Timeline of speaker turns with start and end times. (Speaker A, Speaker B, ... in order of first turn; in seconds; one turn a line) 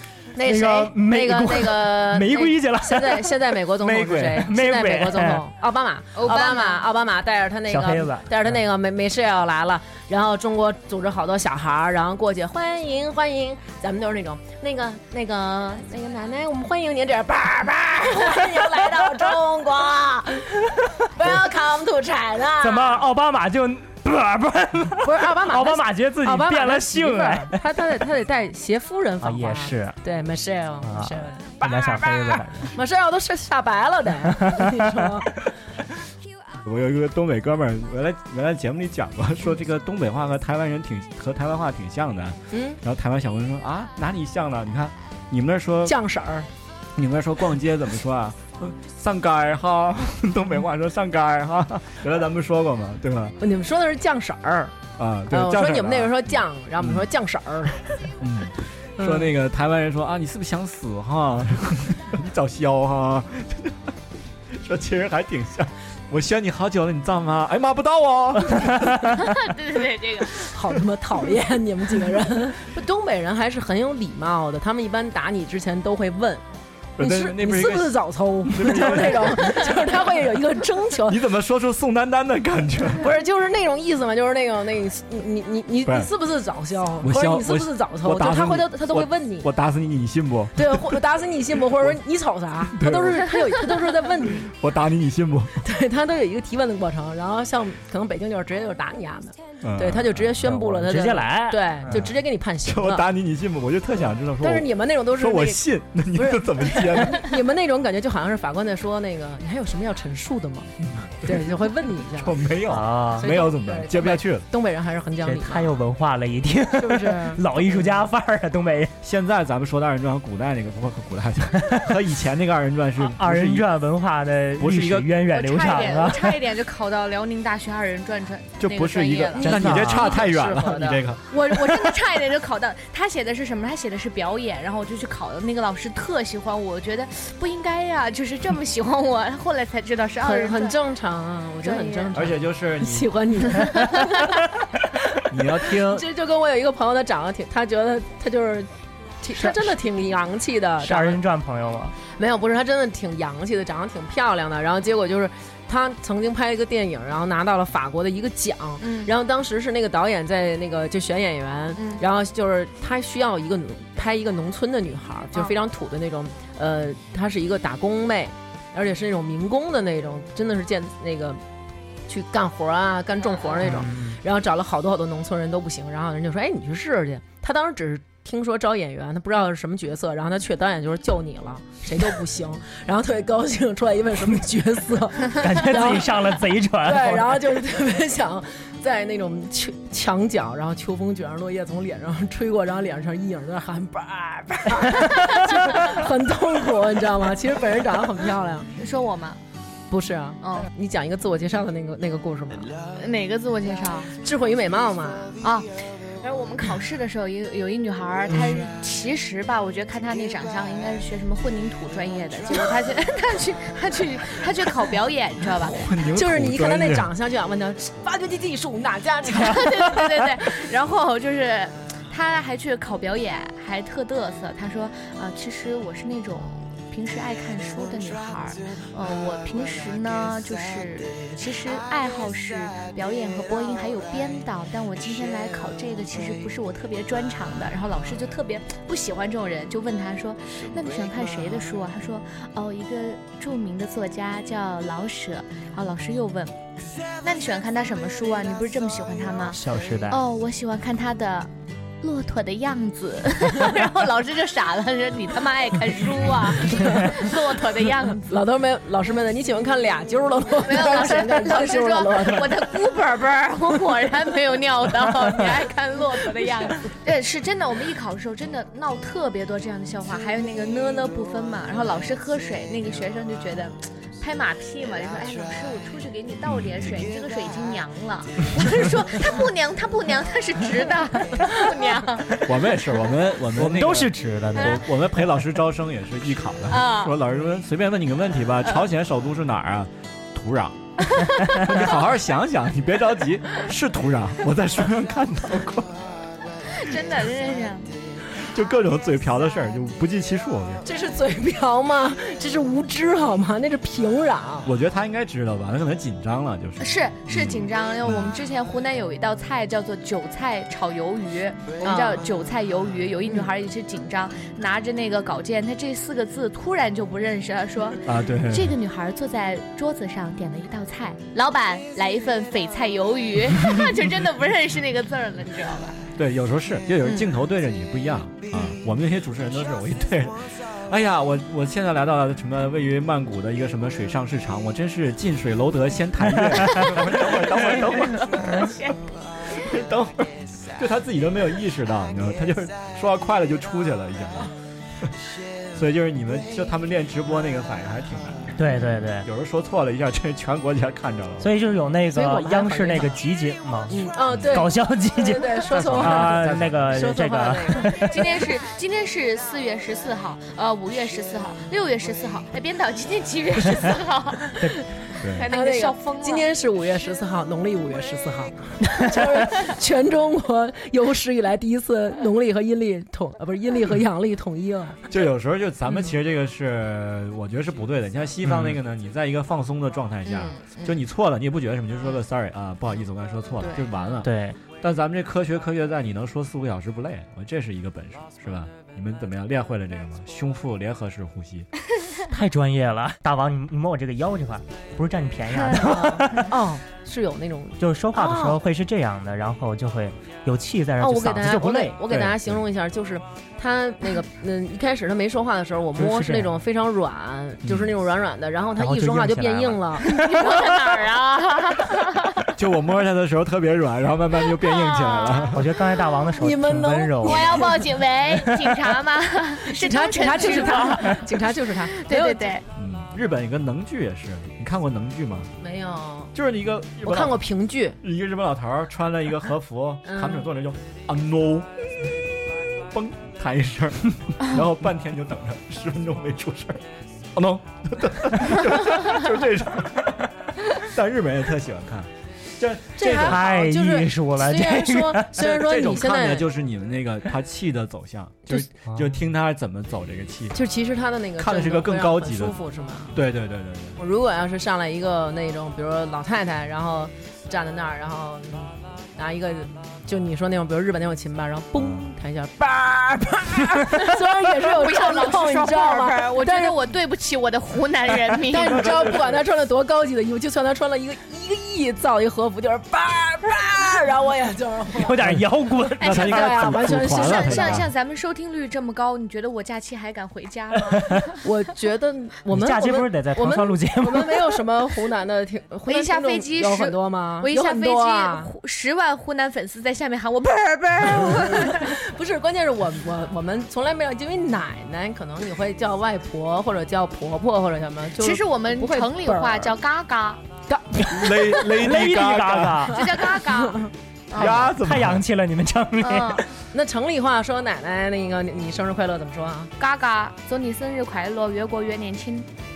Speaker A: 0.3-23.0
Speaker B: 0.4-5.5
Speaker C: 6.2-6.8
Speaker B: 7.7-8.3
Speaker B: 22.6-27.6
Speaker A: 25.0-35.3
Speaker B: 29.2-30.0
Speaker B: 30.8-32.8
Speaker B: 34.2-34.9
Speaker D: 36.6-46.0
Speaker A: 42.5-42.8
Speaker A: 45.9-46.5
Speaker D: 47.0-53.4
Speaker A: 53.4-54.7
Speaker D: 55.0-57.1
Speaker A: 55.3-57.9
Speaker D: 58.2-64.0
Speaker A: 59.0-59.3
Speaker D: 64.5-69.1
Speaker C: 69.0-70.5
Speaker A: 70.5-76.5
Speaker D: 77.0-79.8
Speaker A: 77.0-81.2
Speaker D: 81.0-83.1
Speaker A: 83.0-89.5
Speaker D: 85.8-86.1
Speaker D: 87.0-91.0
Speaker A: 90.6-94.5
Speaker D: 92.8-93.3
Speaker D: 94.3-95.6
Speaker A: 95.6-103.1
Speaker D: 99.6-100.3
Speaker B: 100.4-101.9
Speaker D: 101.9-107.3
Speaker A: 104.4-112.5
Speaker D: 110.8-111.5
Speaker D: 112.2-114.5
Speaker B: 112.7-113.3
Speaker A: 113.2-115.7
Speaker B: 115.2-119.0
Speaker A: 116.8-118.0
Speaker D: 119.0-123.7
Speaker B: 123.0-126.3
Speaker D: 124.6-125.2
Speaker C: 125.3-140.8
Speaker D: 128.6-131.2
Speaker A: 129.4-130.9
Speaker B: 129.4-130.2
Speaker A: 140.2-144.4
Speaker C: 141.6-142.1
Speaker D: 142.1-143.4
Speaker D: 145.3-146.1
Speaker A: 145.6-148.7
Speaker A: 149.2-151.2
Speaker B: 149.3-149.7
Speaker B: 150.8-151.9
Speaker A: 152.1-171.4
Speaker C: 158.8-159.1
Speaker C: 161.8-162.0
Speaker C: 165.3-165.6
Speaker A: 172.1-186.2
Speaker C: 173.2-173.7
Speaker B: 173.6-174.2
Speaker B: 185.3-187.4
Speaker A: 186.8-198.7
Speaker C: 198.8-199.4
Speaker A: 199.9-202.7
Speaker C: 200.4-200.7
Speaker C: 203.0-204.2
Speaker A: 204.2-205.3
Speaker C: 205.4-205.7
Speaker C: 206.2-215.8
Speaker D: 215.6-217.1
Speaker A: 216.2-219.9
Speaker C: 219.3-251.5
Speaker B: 249.5-250.2
Speaker C: 252.0-258.4
Speaker A: 256.6-257.2
Speaker A: 258.3-262.7
Speaker C: 260.6-282.5
Speaker D: 276.5-277.0
Speaker D: 282.4-290.8
Speaker B: 283.5-284.8
Speaker C: 284.6-284.8
Speaker C: 286.7-287.1
Speaker C: 291.1-291.6
Speaker D: 291.5-296.0
Speaker C: 296.7-297.9
Speaker D: 298.4-300.9
Speaker A: 300.9-304.7
Speaker D: 304.6-308.3
Speaker C: 306.8-326.0
Speaker A: 311.8-312.2
Speaker D: 318.1-318.8
Speaker D: 326.2-338.7
Speaker C: 327.0-327.3
Speaker C: 328.5-328.8
Speaker B: 336.4-336.9
Speaker C: 337.4-339.0
Speaker D: 339.6-345.1
Speaker D: 345.7-351.5
Speaker B: 348.6-349.3
Speaker B: 351.4-358.2
Speaker A: 352.1-353.2
Speaker A: 353.9-358.1
Speaker D: 354.3-354.6
Speaker D: 355.8-357.2
Speaker C: 357.9-364.6
Speaker D: 365.2-365.5
Speaker C: 365.2-366.5
Speaker A: 365.5-375.0
Speaker D: 375.1-391.7
Speaker C: 380.3-381.0
Speaker C: 383.6-383.9
Speaker B: 384.2-384.6
Speaker B: 392.3-396.6
Speaker A: 395.8-398.6
Speaker B: 397.8-402.0
Speaker A: 401.0-410.9
Speaker D: 402.1-402.6
Speaker B: 405.9-406.5
Speaker D: 407.6-407.9
Speaker B: 408.8-410.7
Speaker C: 410.1-412.4
Speaker D: 412.5-415.8
Speaker C: 414.6-415.5
Speaker B: 415.5-417.7
Speaker A: 416.4-417.8
Speaker C: 417.2-422.6
Speaker A: 419.6-422.6
Speaker D: 422.8-425.5
Speaker A: 425.6-426.3
Speaker D: 426.3-427.5
Speaker A: 427.0-428.0
Speaker D: 428.0-443.5
Speaker A: 430.1-430.5
Speaker A: 443.0-446.5
Speaker B: 443.1-445.6
Speaker D: 445.3-450.6
Speaker B: 448.9-449.1
Speaker A: 450.5-453.2
Speaker D: 451.4-452.6
Speaker D: 453.1-454.0
Speaker A: 454.0-466.8
Speaker D: 461.8-462.1
Speaker C: 464.4-469.2
Speaker A: 468.5-475.2
Speaker D: 468.6-469.4
Speaker B: 474.9-476.6
Speaker D: 475.2-475.5
Speaker D: 476.0-477.9
Speaker C: 476.0-476.3
Speaker A: 476.1-477.8
Speaker C: 476.9-481.4
Speaker B: 480.9-481.2
Speaker A: 481.4-488.5
Speaker B: 482.5-484.6
Speaker C: 485.9-492.0
Speaker A: 491.1-499.7
Speaker C: 498.2-500.4
Speaker A: 500.7-501.6
Speaker D: 501.1-502.9
Speaker B: 501.2-503.0
Speaker C: 502.9-504.6
Speaker A: 503.1-503.9
Speaker D: 504.3-505.2
Speaker B: 504.4-506.4
Speaker C: 506.0-506.4
Speaker A: 506.7-509.7
Speaker C: 509.8-512.5